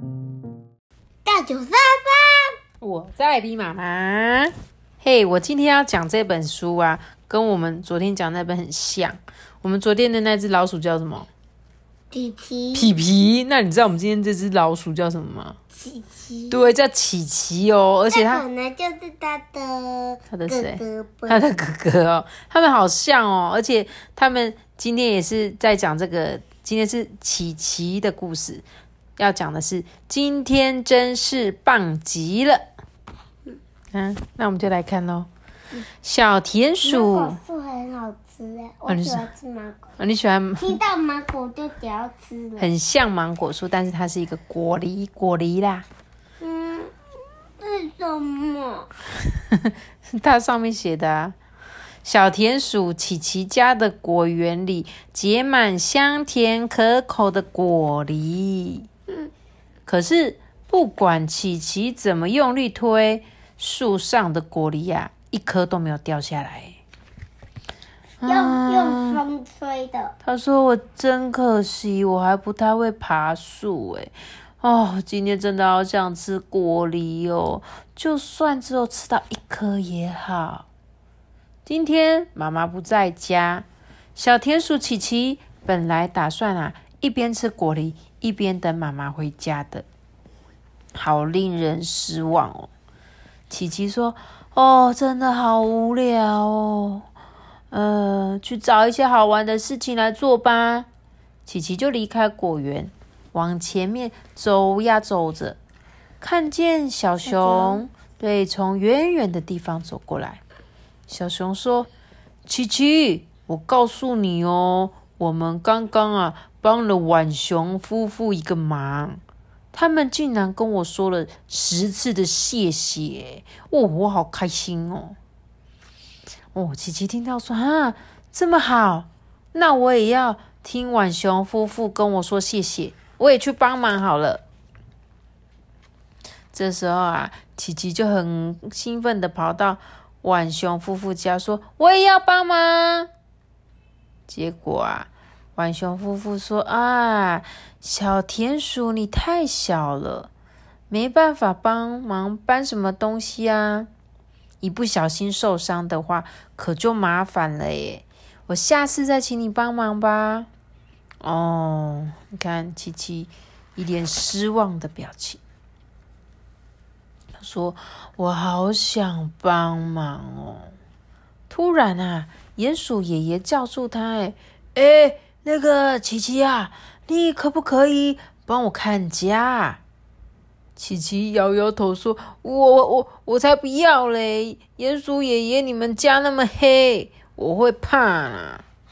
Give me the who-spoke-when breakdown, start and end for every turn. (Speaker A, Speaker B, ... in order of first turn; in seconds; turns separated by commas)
Speaker A: 1.2-2.5, Speaker B: 2.8-11.3, Speaker A: 12.1-12.9, Speaker B: 12.7-15.6, Speaker A: 15.7-16.6, Speaker B: 16.5-18.4, Speaker A: 18.1-21.4, Speaker B: 20.3-28.6, Speaker B: 29.2-32.6, Speaker B: 33.9-35.3, Speaker B: 36.0-37.4, Speaker A: 36.8-39.8, Speaker B: 38.9-39.3, Speaker B: 40.0-40.8, Speaker A: 40.6-42.7, Speaker B: 42.6-45.8, Speaker A: 46.4-46.9, Speaker A: 47.6-48.9, Speaker B: 49.5-51.4, Speaker B: 52.0-58.9, Speaker B: 59.9-66.8, Speaker B: 68.2-69.2, Speaker A: 68.2-70.1, Speaker B: 70.2-80.7, Speaker B: 81.7-89.8, Speaker B: 90.9-92.7, Speaker B: 93.5-97.0, Speaker B: 97.7-100.9, Speaker B: 101.5-105.6, Speaker B: 106.2-110.4, Speaker A: 107.2-107.8, Speaker B: 111.1-111.9, Speaker B: 112.5-119.2, Speaker B: 119.7-125.2, Speaker B: 126.5-134.4, Speaker B: 136.5-143.1, Speaker B: 144.3-150.3, Speaker B: 150.9-153.9, Speaker B: 154.6-160.5, Speaker B: 161.2-165.4, Speaker B: 167.4-170.7, Speaker B: 171.5-179.8, Speaker B: 180.8-188.6